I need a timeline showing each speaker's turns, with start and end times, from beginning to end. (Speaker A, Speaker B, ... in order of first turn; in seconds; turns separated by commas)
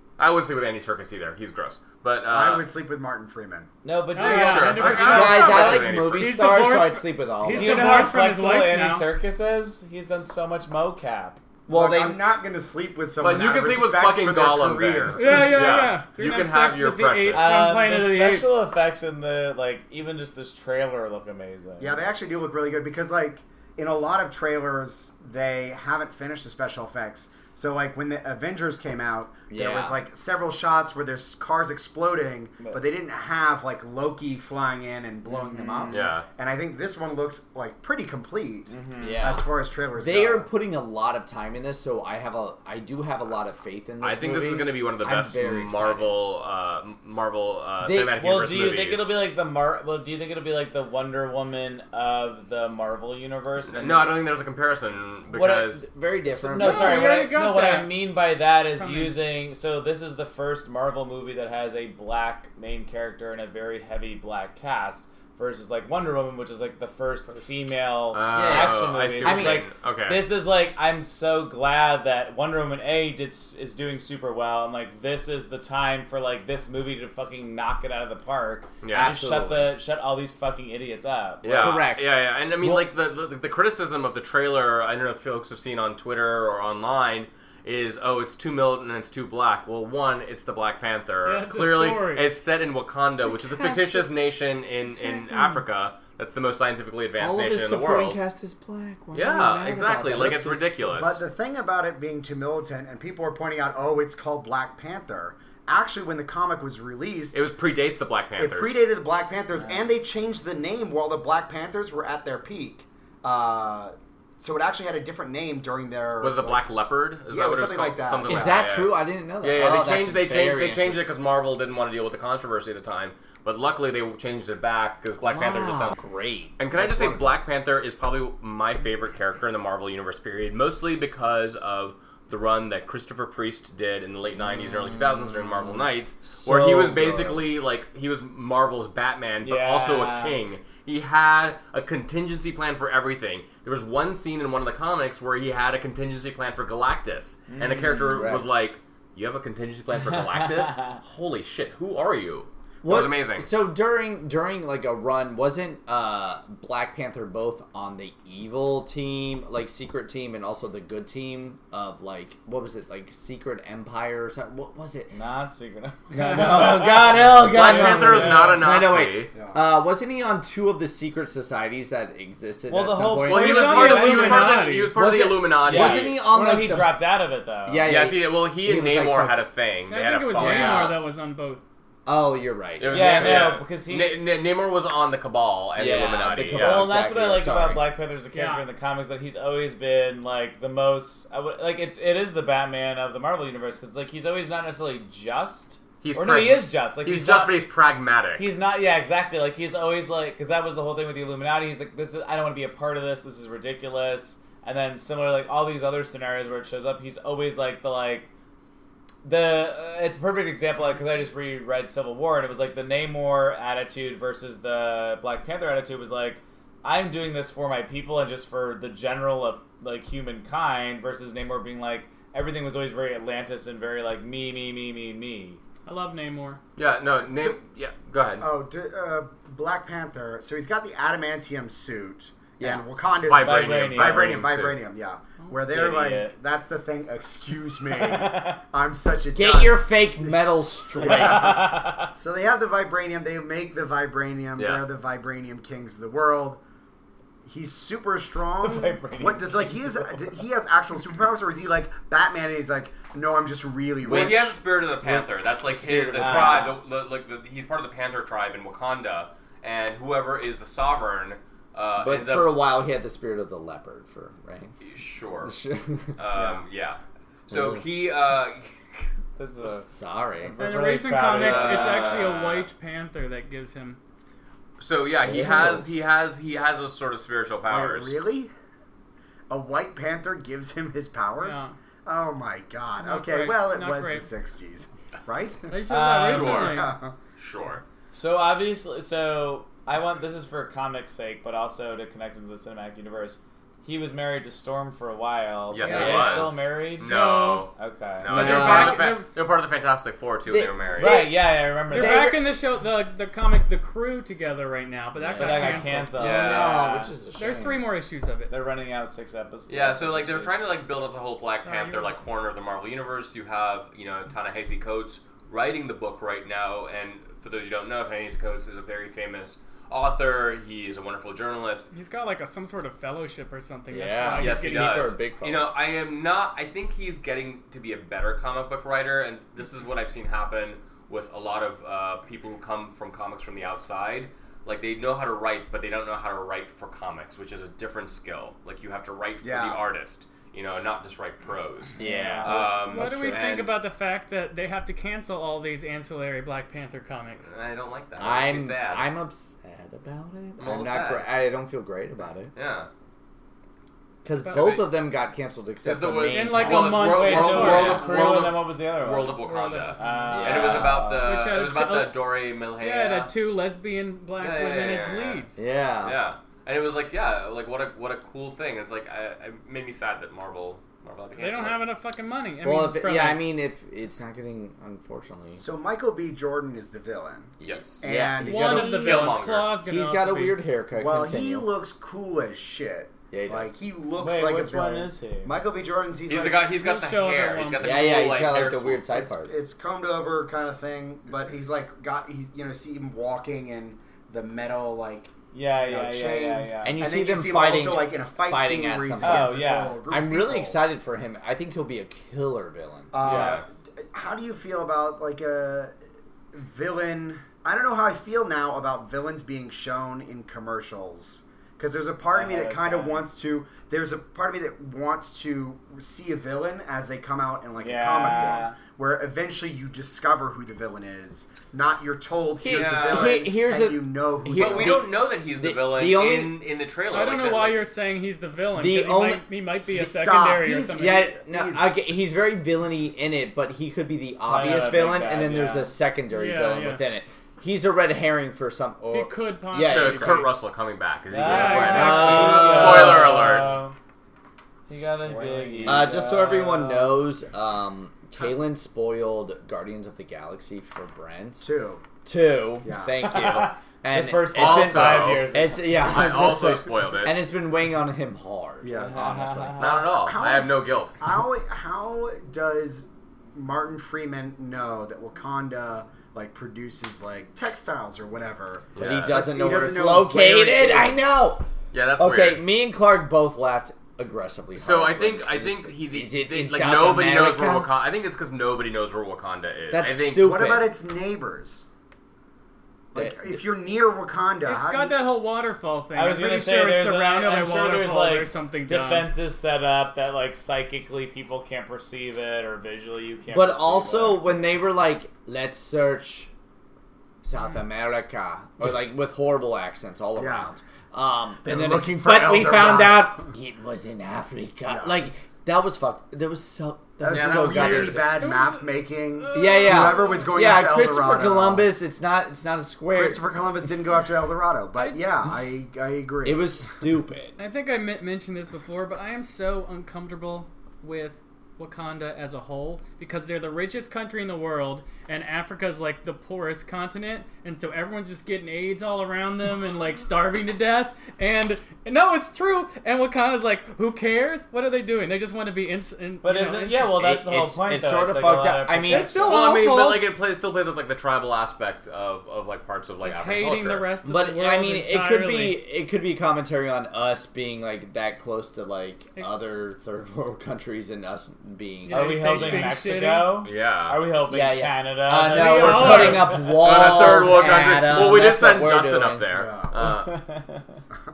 Speaker A: 0.2-2.7, Speaker B: 2.3-3.7, Speaker C: 3.8-5.4, Speaker D: 4.1-9.1, Speaker A: 4.2-6.3, Speaker E: 4.8-8.1, Speaker C: 7.5-11.4, Speaker E: 11.7-12.2, Speaker B: 11.7-15.7, Speaker A: 13.2-17.6, Speaker D: 15.1-18.5, Speaker C: 17.3-22.0, Speaker B: 21.8-40.5, Speaker E: 29.5-30.0, Speaker C: 35.3-36.1, Speaker A: 35.9-36.3, Speaker C: 38.7-39.4, Speaker E: 39.0-39.4, Speaker E: 40.0-46.2, Speaker A: 44.0-49.2, Speaker E: 47.8-48.1, Speaker C: 48.1-54.2, Speaker A: 53.7-55.8, Speaker E: 55.3-57.1, Speaker C: 56.3-81.8, Speaker D: 56.6-59.2, Speaker A: 68.1-70.3, Speaker E: 68.3-69.7, Speaker A: 78.8-79.2, Speaker E: 78.9-79.8, Speaker A: 81.4-98.2, Speaker E: 81.4-82.9, Speaker D: 91.2-92.3, Speaker E: 93.2-94.2, Speaker E: 94.9-95.6, Speaker E: 97.2-101.0, Speaker A: 99.1-101.2, Speaker B: 100.9-107.4, Speaker A: 107.3-108.8, Speaker B: 108.4-116.7, Speaker A: 116.2-126.0, Speaker B: 117.3-118.6, Speaker E: 118.2-121.0, Speaker E: 125.2-127.4, Speaker A: 126.6-153.5, Speaker E: 134.4-137.5, Speaker C: 139.4-140.4, Speaker C: 147.5-148.2, Speaker E: 148.1-148.5, Speaker C: 150.1-150.8, Speaker E: 152.8-165.1, Speaker C: 165.1-168.6, Speaker E: 166.1-173.9, Speaker A: 167.5-169.3, Speaker B: 169.3-169.6, Speaker C: 172.7-174.7, Speaker A: 173.2-176.2, Speaker D: 173.3-175.0, Speaker E: 174.9-177.1, Speaker C: 175.6-177.9, Speaker E: 177.6-179.4, Speaker A: 177.8-181.0, Speaker D: 179.9-181.6, Speaker C: 180.4-180.8, Speaker E: 180.4-180.9, Speaker E: 182.1-183.5, Speaker A: 182.8-187.0, Speaker C: 182.9-184.2, Speaker E: 185.8-187.9, Speaker C: 186.5-197.7, Speaker D: 188.3-188.7, Speaker A: 196.0-198.4, Speaker C: 198.4-208.3, Speaker C: 209.2-225.6, Speaker D: 225.8-226.6, Speaker A: 226.8-228.5, Speaker B: 227.2-227.6, Speaker B: 228.4-246.6, Speaker E: 232.6-233.1, Speaker A: 233.1-234.8, Speaker C: 233.3-234.4, Speaker C: 235.7-236.3, Speaker C: 237.9-238.6, Speaker E: 239.3-241.8, Speaker C: 241.2-242.1, Speaker A: 244.6-244.8, Speaker B: 247.4-254.6, Speaker C: 248.6-250.3, Speaker E: 254.0-254.5, Speaker A: 254.1-262.6, Speaker E: 255.0-256.7, Speaker C: 256.1-256.8, Speaker E: 262.0-264.8, Speaker A: 264.8-265.5, Speaker E: 265.4-266.6, Speaker A: 266.2-269.1, Speaker E: 267.5-267.8, Speaker C: 269.4-272.4, Speaker E: 269.7-270.6, Speaker D: 270.6-274.0, Speaker A: 271.3-272.7, Speaker A: 274.8-278.2, Speaker E: 275.2-275.9, Speaker B: 277.6-278.5, Speaker B: 279.5-287.1, Speaker D: 281.4-281.7, Speaker D: 283.0-284.3, Speaker D: 285.7-287.0, Speaker C: 285.9-286.8, Speaker A: 286.2-287.8, Speaker C: 288.1-297.1, Speaker A: 295.7-301.2, Speaker D: 295.9-296.2, Speaker E: 295.9-296.6, Speaker D: 297.0-297.7, Speaker C: 297.7-298.4, Speaker D: 298.2-299.3, Speaker E: 298.3-299.1, Speaker E: 300.5-302.4, Speaker C: 301.0-302.4, Speaker D: 301.9-306.5, Speaker E: 305.2-307.9, Speaker C: 305.4-307.1, Speaker A: 306.1-306.9, Speaker D: 307.4-308.5, Speaker C: 308.5-310.6, Speaker A: 309.7-321.9, Speaker D: 311.6-312.2, Speaker D: 321.9-325.2, Speaker E: 323.9-325.7, Speaker A: 324.3-343.7, Speaker B: 339.4-339.8, Speaker C: 342.0-342.7, Speaker E: 342.0-343.5, Speaker D: 342.5-347.5, Speaker A: 347.4-349.1, Speaker E: 348.2-352.5, Speaker A: 350.6-351.3, Speaker A: 352.5-352.9, Speaker E: 354.2-357.0, Speaker D: 354.4-354.9, Speaker A: 354.5-354.8, Speaker A: 355.8-363.3, Speaker D: 356.3-358.2, Speaker C: 356.6-361.3, Speaker D: 359.4-365.6, Speaker E: 360.3-361.0, Speaker A: 364.4-365.5, Speaker E: 365.6-366.2, Speaker A: 366.0-371.8, Speaker D: 371.3-373.4, Speaker E: 372.6-375.6, Speaker B: 375.5-379.2, Speaker A: 377.6-378.1, Speaker E: 378.0-381.7, Speaker D: 378.4-380.6, Speaker A: 378.9-379.7, Speaker B: 381.0-386.7, Speaker E: 383.3-383.7, Speaker C: 384.1-385.6, Speaker A: 386.3-389.1, Speaker D: 386.7-388.3, Speaker E: 387.8-389.5, Speaker B: 389.1-400.8, Speaker C: 395.5-397.0, Speaker E: 396.8-403.5, Speaker C: 399.2-400.0, Speaker B: 403.1-405.9, Speaker C: 403.2-403.6, Speaker A: 403.2-403.6, Speaker B: 406.5-425.1, Speaker C: 412.3-413.3, Speaker C: 417.8-418.8, Speaker E: 422.6-426.6, Speaker A: 422.7-423.4, Speaker A: 424.5-427.9, Speaker D: 427.1-431.4, Speaker E: 428.8-429.4, Speaker B: 429.8-431.9, Speaker E: 430.9-440.5, Speaker C: 434.4-435.9, Speaker D: 436.3-437.0, Speaker D: 439.1-440.5, Speaker A: 439.9-443.8, Speaker C: 441.3-443.9, Speaker D: 441.4-443.1, Speaker E: 441.5-443.4, Speaker C: 444.9-447.3, Speaker D: 445.3-445.9, Speaker E: 445.8-451.6, Speaker B: 451.6-452.0, Speaker E: 452.2-460.0, Speaker B: 452.8-453.1, Speaker C: 453.2-456.1, Speaker A: 453.4-453.6, Speaker A: 454.5-457.4, Speaker B: 458.8-459.6, Speaker C: 459.0-460.1, Speaker A: 459.8-461.2, Speaker B: 460.1-471.5, Speaker A: 468.9-469.4, Speaker E: 469.0-471.6, Speaker A: 471.9-472.6, Speaker E: 472.2-477.9, Speaker A: 474.8-480.5, Speaker E: 479.9-480.9, Speaker B: 480.4-481.9, Speaker B: 483.1-485.2, Speaker E: 483.1-483.6, Speaker D: 484.6-489.3, Speaker C: 486.1-494.4, Speaker E: 493.5-496.5, Speaker E: 497.4-508.4, Speaker B: 500.4-500.7, Speaker B: 501.6-503.5, Speaker B: 504.9-505.2, Speaker B: 507.2-511.9, Speaker A: 507.3-508.3, Speaker D: 508.2-510.5, Speaker E: 509.5-513.4, Speaker B: 513.1-517.0, Speaker D: 514.9-515.4, Speaker E: 516.4-517.5, Speaker D: 517.6-537.2, Speaker C: 536.4-539.7, Speaker E: 537.2-539.6, Speaker D: 539.0-540.4, Speaker A: 539.5-544.1, Speaker D: 543.2-545.8, Speaker E: 544.2-553.0, Speaker D: 552.0-553.7, Speaker C: 552.1-556.6, Speaker A: 553.6-554.2, Speaker E: 554.5-559.4, Speaker D: 555.4-557.5, Speaker A: 556.5-560.4, Speaker B: 559.5-560.0, Speaker C: 560.0-561.0